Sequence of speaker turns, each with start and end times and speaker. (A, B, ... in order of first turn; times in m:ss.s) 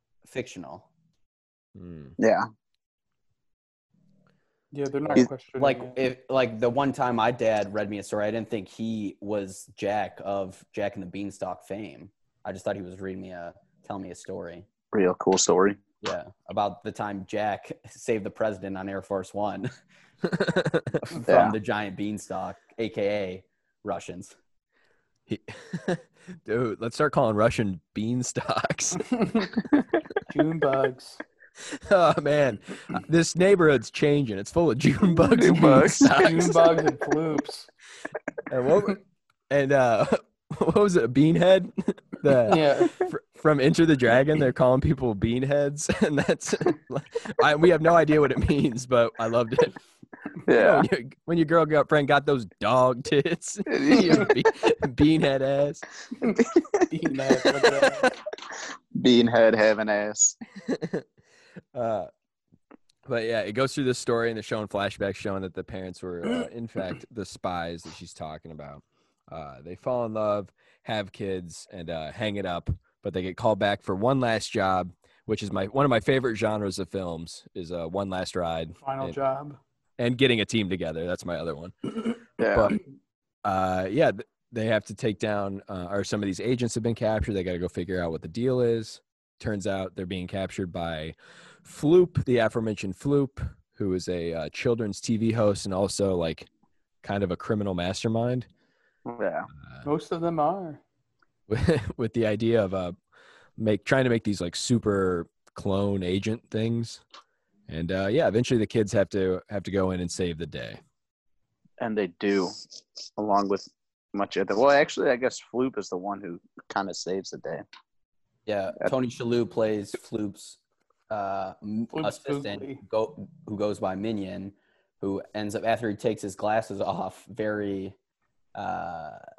0:00.2-0:00.8 A
0:01.8-0:02.2 B
0:02.2-0:02.4 C
0:04.7-0:06.0 D
0:05.6-0:14.6 A
0:14.9-0:15.8 C
0:16.0-0:19.7 A
0:20.3-0:21.0 B
0:21.1-0:24.3 A
0:21.2-0:21.5 C
0:25.3-0:29.2 B
0:29.2-0:29.5 D
0:30.3-0:31.2 D
0:31.7-0:36.7 B
0:35.2-0:36.3 C
0:35.5-0:37.7 D
0:38.5-0:49.8 B
0:42.5-0:43.0 D
0:50.4-0:50.9 C
0:50.5-0:55.8 B
0:53.7-0:54.3 C
0:56.2-0:58.1 D
0:56.4-0:56.8 C
0:58.9-1:00.4 C
1:00.6-1:01.0 B
1:01.7-1:02.1 B
1:03.0-1:19.2 B
1:18.8-1:19.6 D
1:20.0-1:22.8 B
1:22.4-1:22.8 C
1:23.4-1:36.5 B
1:37.0-1:38.5 B
1:39.0-1:39.5 C
1:39.8-1:40.8 D
1:41.5-1:42.9 B
1:43.6-1:47.0 B
1:47.7-1:50.8 B
1:51.8-1:52.5 C
1:53.2-1:57.6 C
1:58.4-2:00.6 A
2:01.1-2:07.9 A
2:01.9-2:02.8 D
2:08.5-2:09.2 A